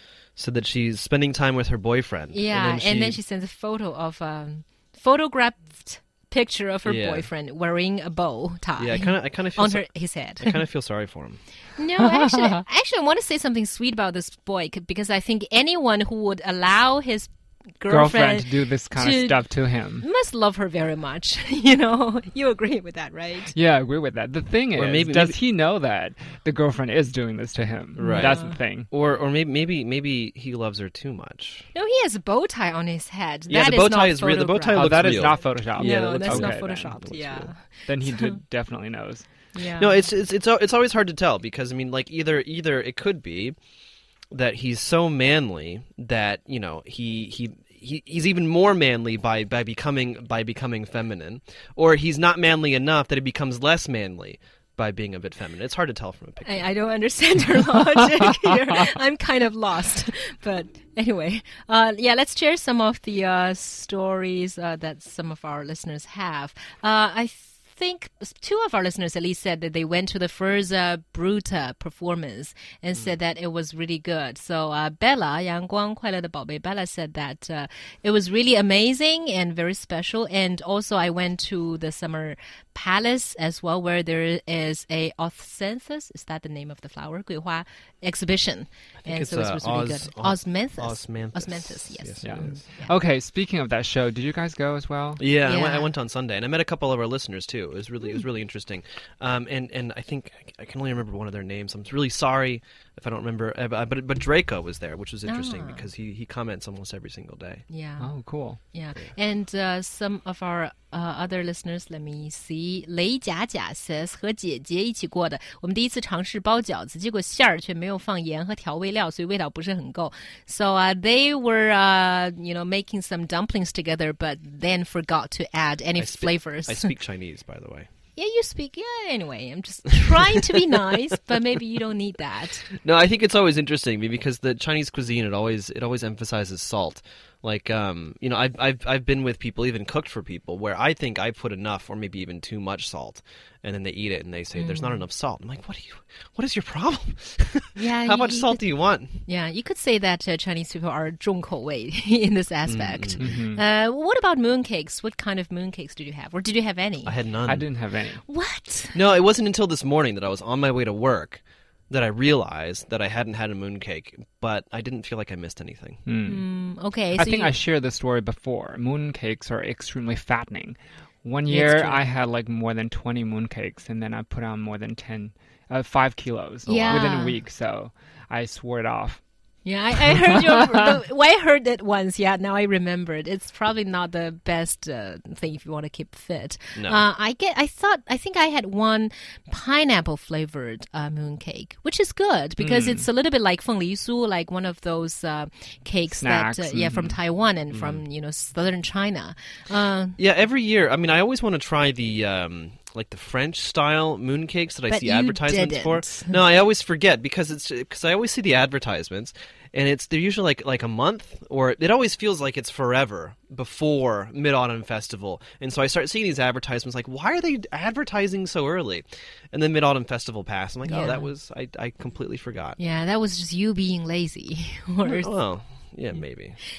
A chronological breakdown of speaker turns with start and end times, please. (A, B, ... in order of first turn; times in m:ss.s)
0:00.4-0:03.2 A
0:02.3-0:10.6 B
0:06.8-0:07.3 A
0:08.8-0:11.4 A
0:11.8-0:23.6 B
0:12.1-0:12.6 C
0:17.9-0:20.1 C
0:23.5-0:28.9 C
0:24.8-0:25.4 A
0:28.0-0:31.7 A
0:28.0-0:28.6 B
0:31.7-0:38.4 B
0:33.5-0:37.5 A
0:34.7-0:36.9 C
0:37.9-0:39.3 C
0:39.5-0:40.0 B
0:39.8-0:43.6 A
0:44.3-0:56.7 A
0:56.4-1:32.9 B
1:29.0-1:32.6 A
1:32.2-1:35.2 C
1:35.2-1:47.6 A
1:35.4-1:35.9 B
1:45.3-1:45.9 B
1:47.7-1:48.1 B
1:48.0-1:48.6 C
1:48.7-2:06.9 B
2:06.0-2:07.9 A
2:08.2-2:12.7 B
2:10.1-2:10.4 A
2:12.7-2:29.2 A
2:24.6-2:25.1 B
2:27.8-2:28.7 B
2:29.2-2:37.2 B
2:32.7-2:33.2 A
2:33.2-2:33.6 C
2:37.0-2:37.7 A
2:37.4-2:38.2 C
2:38.2-2:39.0 B
2:38.9-2:46.0 A
2:46.1-2:46.4 C
2:46.2-2:47.6 B
2:47.1-2:59.2 C
2:51.5-2:52.0 B
2:56.7-2:57.4 B
2:59.6-3:20.2 B
3:00.0-3:01.0 C
3:06.8-3:07.0 A
3:12.6-3:13.0 C
3:16.2-3:17.2 C
3:17.7-3:18.0 A
3:20.2-3:42.8 A
3:24.9-3:26.4 B
3:40.9-3:41.3 B
3:42.8-3:45.3 B
3:45.0-3:46.6 A